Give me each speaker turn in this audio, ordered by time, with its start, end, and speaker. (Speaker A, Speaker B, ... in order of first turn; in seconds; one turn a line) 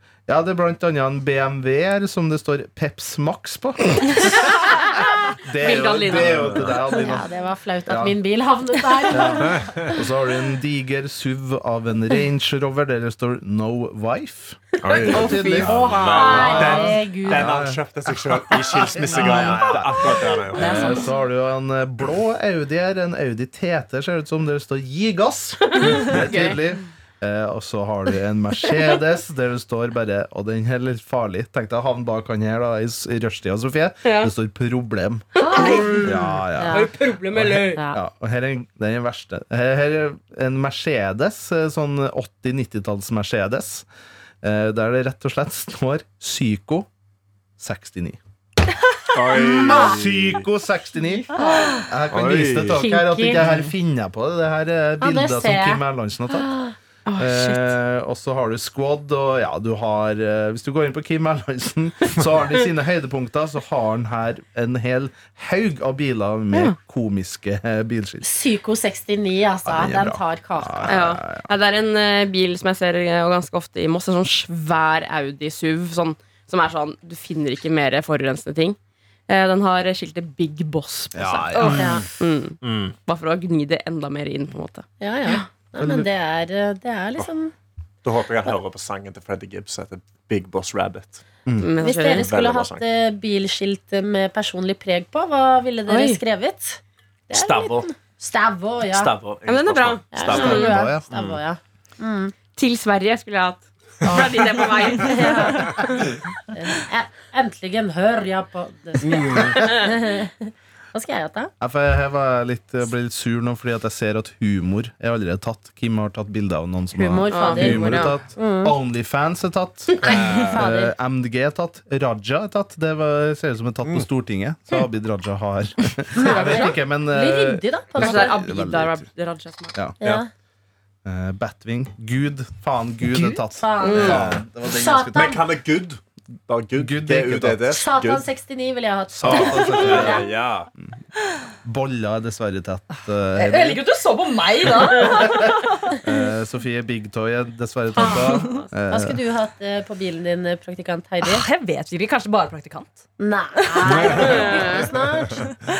Speaker A: 0.3-4.8
Speaker B: 4.5-6.6
Speaker A: 5.4-7.3
Speaker C: 6.0-6.8
Speaker D: 7.0-9.9
Speaker A: 7.9-8.2
Speaker A: 9.1-35.3
Speaker C: 9.6-9.9
Speaker C: 14.8-20.9
Speaker B: 15.1-16.6
Speaker D: 15.1-17.5
Speaker D: 19.2-19.5
Speaker D: 20.6-20.9
Speaker B: 25.6-26.6
Speaker B: 34.0-34.3
Speaker B: 35.4-37.8
Speaker D: 35.4-36.9
Speaker A: 35.9-43.9
Speaker D: 37.7-38.0
Speaker A: 44.4-46.9
Speaker A: 47.6-48.2
Speaker C: 49.1-50.4
Speaker D: 49.4-49.9
Speaker A: 49.7-56.6
Speaker D: 51.4-51.9
Speaker C: 52.1-52.8
Speaker D: 52.8-53.5
Speaker D: 55.0-55.8
Speaker B: 57.1-57.7
Speaker A: 57.2-68.2
Speaker D: 68.2-71.0
Speaker A: 69.7-71.5
Speaker B: 70.9-78.8
Speaker B: 79.3-85.4
Speaker A: 81.1-82.1
Speaker D: 81.6-82.0
Speaker C: 82.6-83.0
Speaker D: 85.0-87.5
Speaker A: 85.8-86.1
Speaker C: 88.0-91.2
Speaker A: 91.5-91.7
Speaker B: 91.6-92.3
Speaker D: 91.8-99.1
Speaker C: 92.1-92.8
Speaker B: 95.9-96.2
Speaker C: 97.3-97.9
Speaker C: 98.9-101.4
Speaker B: 99.5-100.7
Speaker D: 100.1-102.3
Speaker A: 100.3-101.1
Speaker B: 102.6-106.1
Speaker D: 104.0-104.3
Speaker D: 104.9-105.8
Speaker D: 106.5-111.5
Speaker C: 109.0-109.6
Speaker A: 111.6-129.1
Speaker D: 117.0-118.7
Speaker B: 117.3-118.2
Speaker D: 120.0-120.9
Speaker D: 126.2-128.3
Speaker B: 126.2-126.8
Speaker B: 128.0-129.8
Speaker D: 130.0-130.3
Speaker A: 131.1-135.4
Speaker D: 133.5-135.4
Speaker B: 133.8-134.2
Speaker C: 134.0-134.3
Speaker C: 135.1-138.3
Speaker A: 136.8-137.7
Speaker D: 137.7-140.3
Speaker A: 139.1-140.3
Speaker C: 139.2-140.7
Speaker A: 141.6-143.8
Speaker E: 143.4-146.0
Speaker A: 145.0-149.2
Speaker D: 148.0-151.4
Speaker E: 151.2-153.1
Speaker D: 153.2-155.5
Speaker E: 153.6-154.4
Speaker C: 153.9-154.8
Speaker B: 154.0-154.9